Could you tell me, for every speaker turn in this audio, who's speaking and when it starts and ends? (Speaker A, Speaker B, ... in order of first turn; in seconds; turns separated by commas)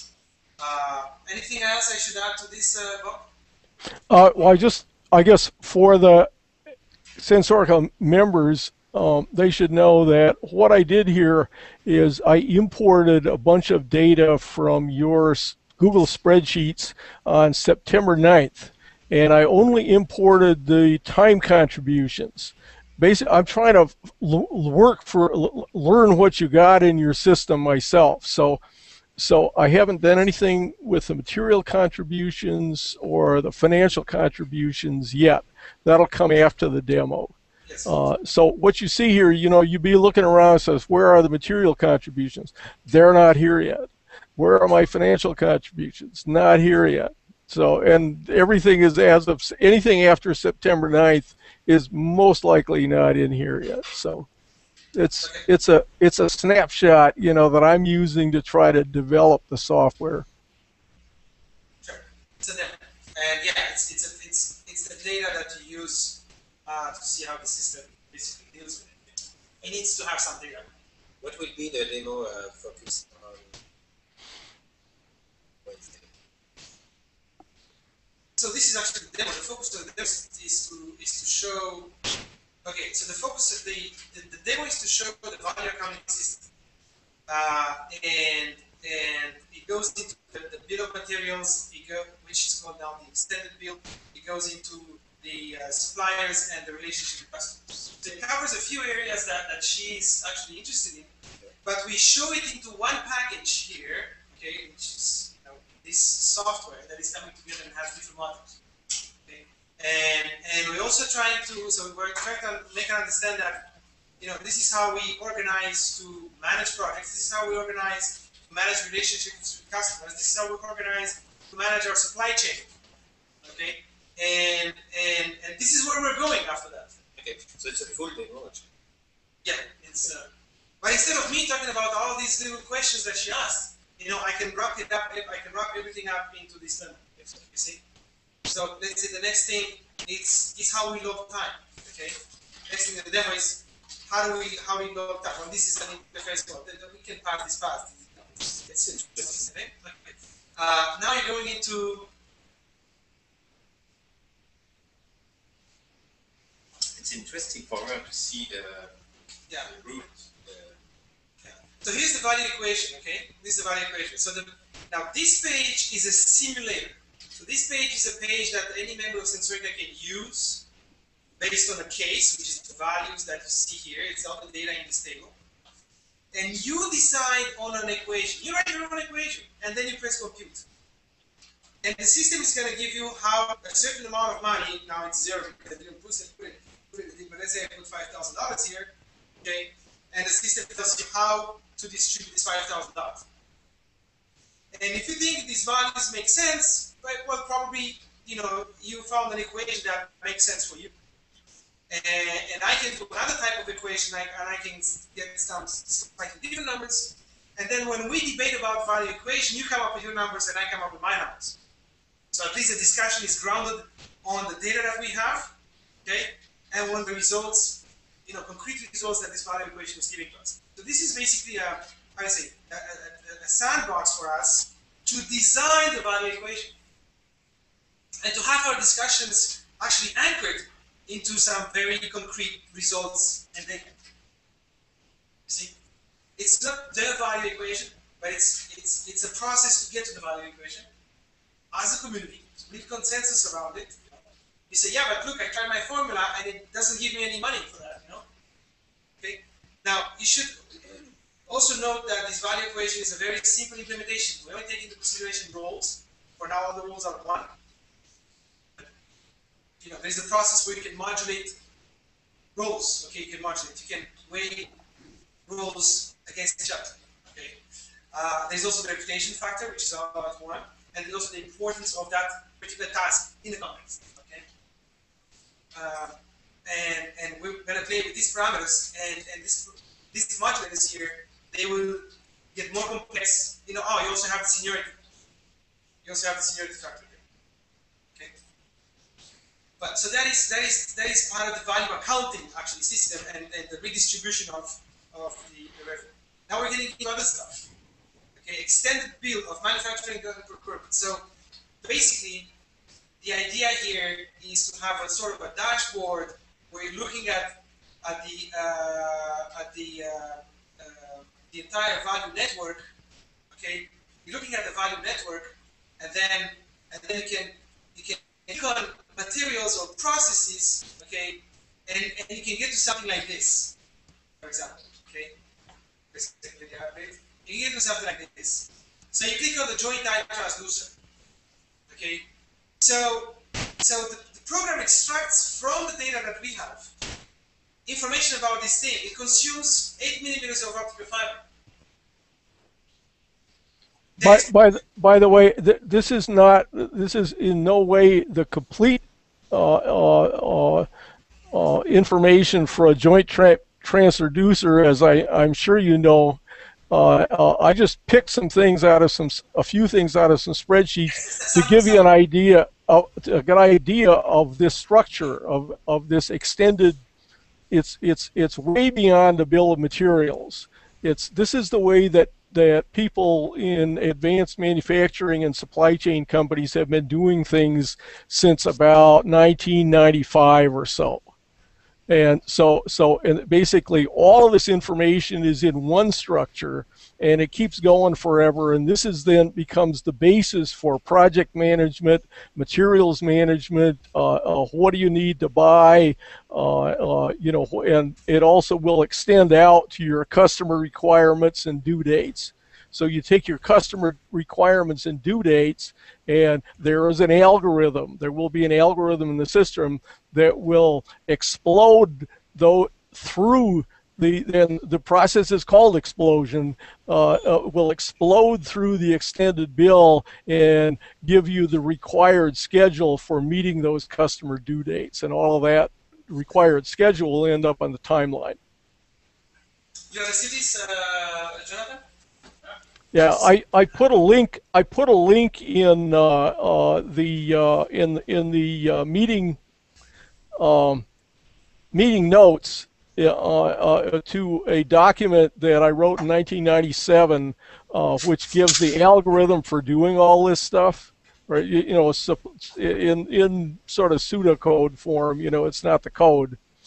Speaker A: 0.6-3.3, Speaker B: 4.1-6.3, Speaker B: 7.2-28.6, Speaker B: 29.2-54.3, Speaker A: 37.6-37.9, Speaker B: 54.9-60.3, Speaker A: 55.2-55.5, Speaker A: 61.8-69.0, Speaker A: 69.6-70.7, Speaker C: 71.2-73.6, Speaker C: 75.6-76.1, Speaker A: 78.4-81.9, Speaker A: 82.6-86.5, Speaker A: 87.3-108.6, Speaker A: 109.2-122.7, Speaker A: 123.4-127.2, Speaker C: 127.2-128.7, Speaker A: 129.4-137.8, Speaker C: 137.2-137.5, Speaker A: 138.4-152.1, Speaker C: 148.9-149.5, Speaker C: 156.9-159.0, Speaker C: 159.6-160.8, Speaker A: 161.4-170.7, Speaker A: 171.4-175.4, Speaker A: 176.3-180.7, Speaker A: 181.8-193.2, Speaker A: 194.7-200.9, Speaker A: 201.9-211.6, Speaker A: 212.3-215.5, Speaker A: 216.0-226.7, Speaker A: 228.2-233.9, Speaker A: 235.5-235.8, Speaker A: 236.4-240.9, Speaker A: 241.7-248.3, Speaker A: 249.2-257.5, Speaker A: 259.8-261.6, Speaker A: 262.6-264.7, Speaker A: 265.5-267.6, Speaker A: 268.1-274.5, Speaker A: 275.7-285.0, Speaker A: 286.0-287.2, Speaker A: 289.8-297.7, Speaker A: 298.4-301.3, Speaker A: 301.8-302.5, Speaker A: 303.2-312.9, Speaker A: 313.5-323.8, Speaker A: 324.4-325.4, Speaker A: 326.1-331.0, Speaker A: 331.9-332.3, Speaker A: 332.8-336.9, Speaker A: 337.9-341.4, Speaker A: 344.2-344.5, Speaker B: 344.2-350.9, Speaker B: 351.5-356.4, Speaker B: 356.9-367.0, Speaker A: 361.2-362.1, Speaker B: 367.7-381.3, Speaker B: 382.1-428.6, Speaker A: 430.1-432.1, Speaker B: 433.1-439.6, Speaker A: 433.2-433.5, Speaker B: 440.6-441.1, Speaker B: 441.9-456.6